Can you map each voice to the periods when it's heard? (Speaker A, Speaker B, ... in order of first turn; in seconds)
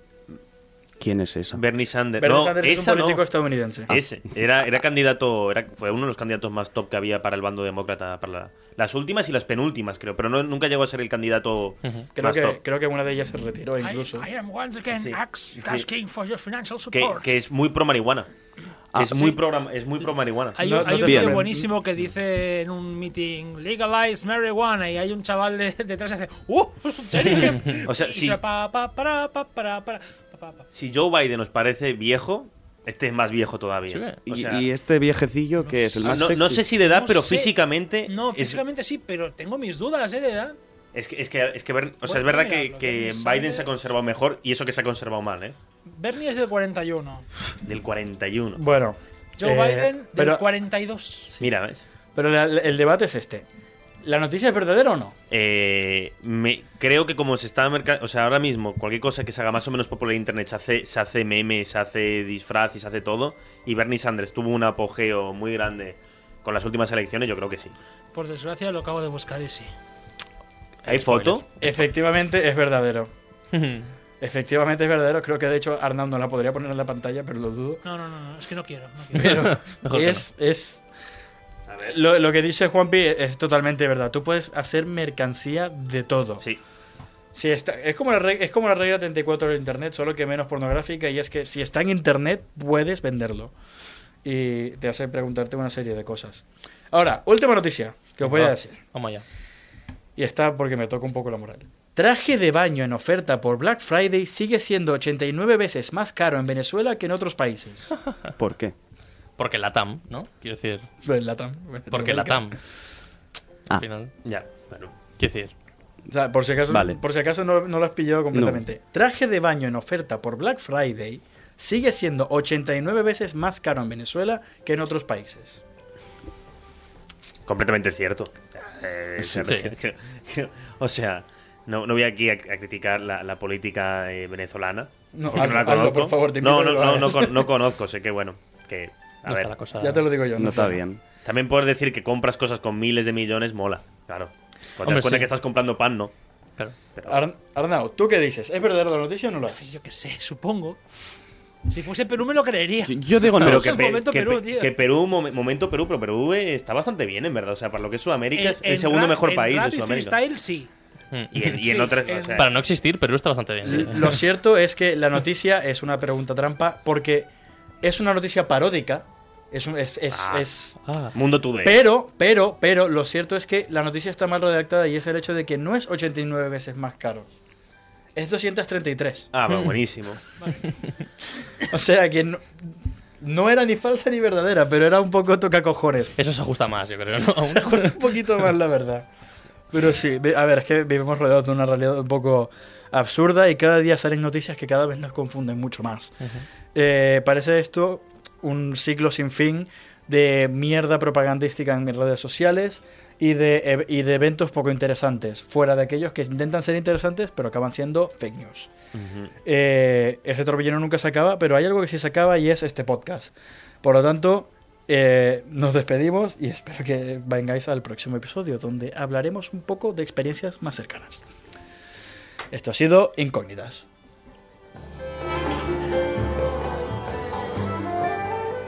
Speaker A: 1.0-1.6, 18.9-19.4, 20.9-21.4, 34.3-36.6, 108.4-108.7, 116.7-117.0, 118.3-118.6, 129.2-129.7, 140.4-141.0, 152.8-153.9
Speaker B: 1.6-3.2, 3.9-12.6, 15.0-15.9, 16.9-18.3, 18.9-20.6, 27.2-28.4, 30.7-34.7, 36.0-38.6, 40.9-45.6, 47.6-48.6, 51.4-51.8, 55.3-67.7, 70.9-71.5, 81.7-82.0, 114.2-114.9, 127.5-139.5, 141.2-146.1, 146.9-147.2, 153.4-160.2, 161.3-162.5, 170.1-170.5, 171.1-171.8, 179.3-180.2, 208.9-209.3
Speaker C: 2.2-4.0, 12.2-14.2, 20.6-21.7, 48.6-50.4, 52.1-53.5, 54.0-55.2, 71.6-73.1, 74.2-77.8, 79.1-80.8, 81.8-86.4, 87.3-93.5, 94.2-98.8, 100.2-107.9, 111.0-112.5, 116.1-125.6, 135.1-137.5, 139.8-140.8, 147.1-149.7, 163.7-167.3, 167.8-170.8, 171.6-177.3, 178.2-179.3, 181.6-182.6, 183.2-186.2, 187.1-189.1, 189.7-196.2, 196.7-208.7, 209.4-213.3, 213.8-221.2, 222.5-223.9
Speaker D: 13.8-17.3, 20.6-30.6, 35.6-36.2, 36.9-37.5, 38.1-40.6, 42.0-43.7, 45.9-47.3, 49.4-51.3, 68.1-69.7, 77.8-79.5, 149.5-150.8, 151.7-154.7, 158.3-160.7, 161.5-162.5
Speaker E: 33.9-34.2, 70.8-71.4, 73.5-73.9, 79.4-80.3, 98.2-99.2, 109.4-110.9, 111.9-112.6, 113.7-114.1, 115.2-115.5, 129.4-129.7, 139.3-140.1, 144.8-145.3, 161.1-161.4, 162.4-164.2, 170.8-171.1, 186.2-188.0